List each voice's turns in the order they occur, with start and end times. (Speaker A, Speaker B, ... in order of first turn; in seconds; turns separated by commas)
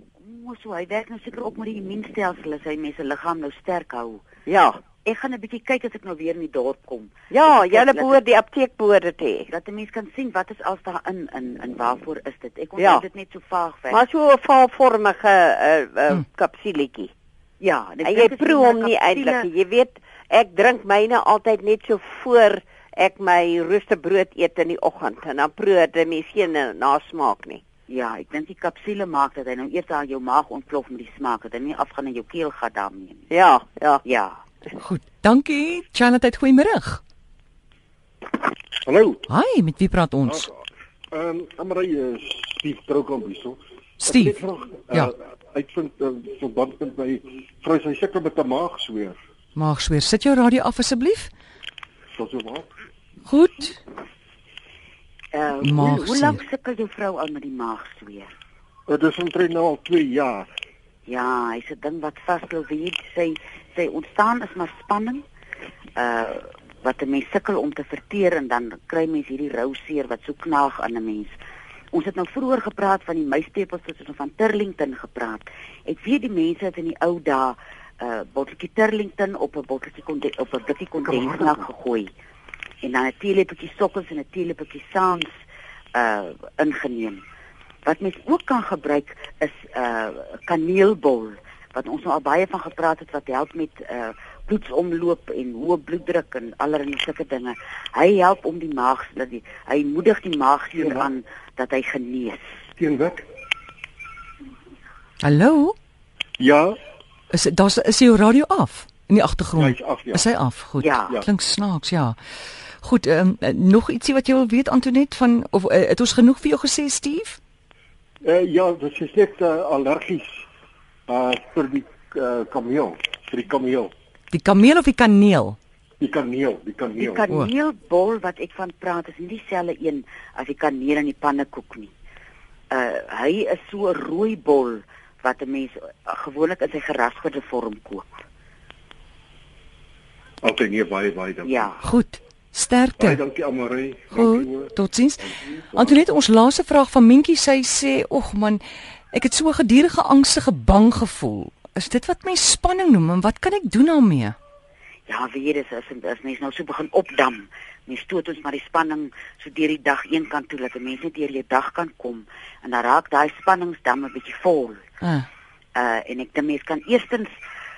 Speaker A: 0.2-4.2, Speaker B: 4.5-4.8, Speaker A: 5.0-8.2, Speaker B: 7.3-9.5, Speaker A: 9.5-14.0, Speaker B: 12.8-13.0, Speaker B: 13.9-17.1, Speaker A: 17.6-19.5, Speaker B: 18.1-27.6, Speaker A: 27.9-33.3, Speaker B: 33.3-34.0, Speaker A: 34.0-34.4, Speaker C: 34.8-37.0, Speaker D: 38.8-39.2, Speaker C: 39.3-40.5, Speaker D: 40.2-40.6, Speaker D: 41.1-49.2, Speaker C: 44.0-44.4, Speaker C: 49.6-51.3, Speaker D: 52.1-52.7, Speaker C: 53.2-53.8, Speaker A: 55.3-58.3, Speaker C: 55.6-56.4, Speaker D: 58.9-60.5, Speaker A: 61.1-65.2, Speaker A: 66.0-71.4, Speaker A: 71.9-82.1, Speaker D: 81.1-81.6, Speaker A: 82.8-85.4, Speaker A: 86.0-87.2, Speaker A: 87.9-102.4, Speaker D: 100.8-101.1, Speaker D: 102.8-103.3, Speaker C: 105.2-105.8, Speaker D: 106.4-106.8, Speaker C: 107.3-112.2, Speaker D: 109.6-110.2, Speaker A: 110.8-111.2, Speaker C: 112.8-117.4, Speaker D: 118.2-120.4, Speaker D: 121.1-123.9, Speaker C: 124.3-125.6, Speaker D: 126.0-127.2, Speaker A: 127.0-131.9, Speaker A: 132.7-138.1, Speaker D: 140.4-141.7, Speaker A: 141.4-141.8, Speaker C: 141.8-143.2, Speaker D: 143.0-144.8, Speaker C: 144.1-154.4, Speaker D: 145.4-146.0, Speaker A: 155.1-164.8, Speaker C: 165.0-165.3, Speaker A: 165.8-167.3